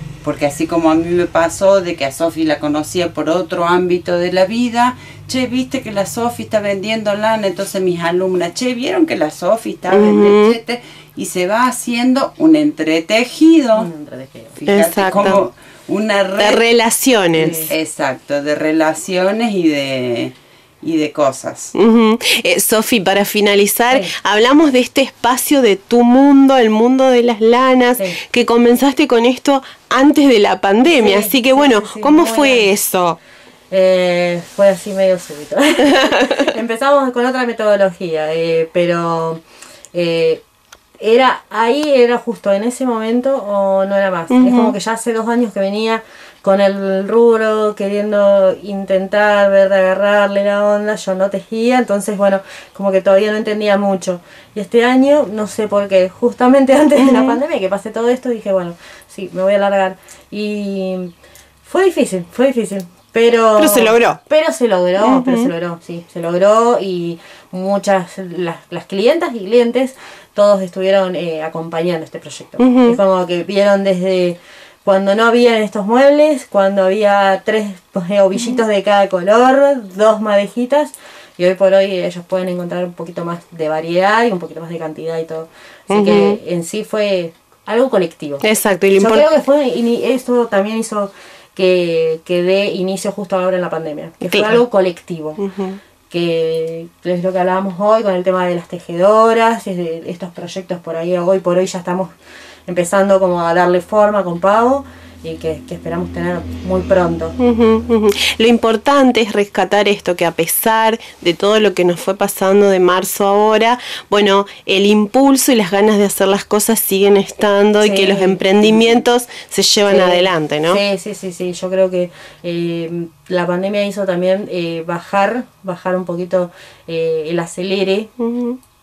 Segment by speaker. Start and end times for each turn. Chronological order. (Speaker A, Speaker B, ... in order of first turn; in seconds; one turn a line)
Speaker A: 0.2-13.9
Speaker B: 9.9-10.6
Speaker C: 13.8-14.5
Speaker A: 14.5-16.6
Speaker B: 14.7-15.4
Speaker B: 16.4-17.7
Speaker C: 17.3-17.7
Speaker A: 17.5-21.8
Speaker B: 21.8-33.2
Speaker C: 30.8-32.7
Speaker C: 33.7-40.4
Speaker C: 41.0-61.1
Speaker B: 44.3-44.8
Speaker B: 57.0-57.4
Speaker C: 61.6-88.4
Speaker B: 63.6-64.2
Speaker B: 65.0-65.5
Speaker B: 72.6-73.0
Speaker B: 85.9-86.4
Speaker B: 88.4-89.2
Speaker C: 89.0-95.4
Speaker B: 94.2-94.6
Speaker B: 95.4-95.8
Speaker C: 96.1-102.1
Speaker C: 102.7-107.3
Speaker B: 107.4-120.8
Speaker C: 117.8-118.4
Speaker C: 119.9-128.1
Speaker B: 128.2-128.6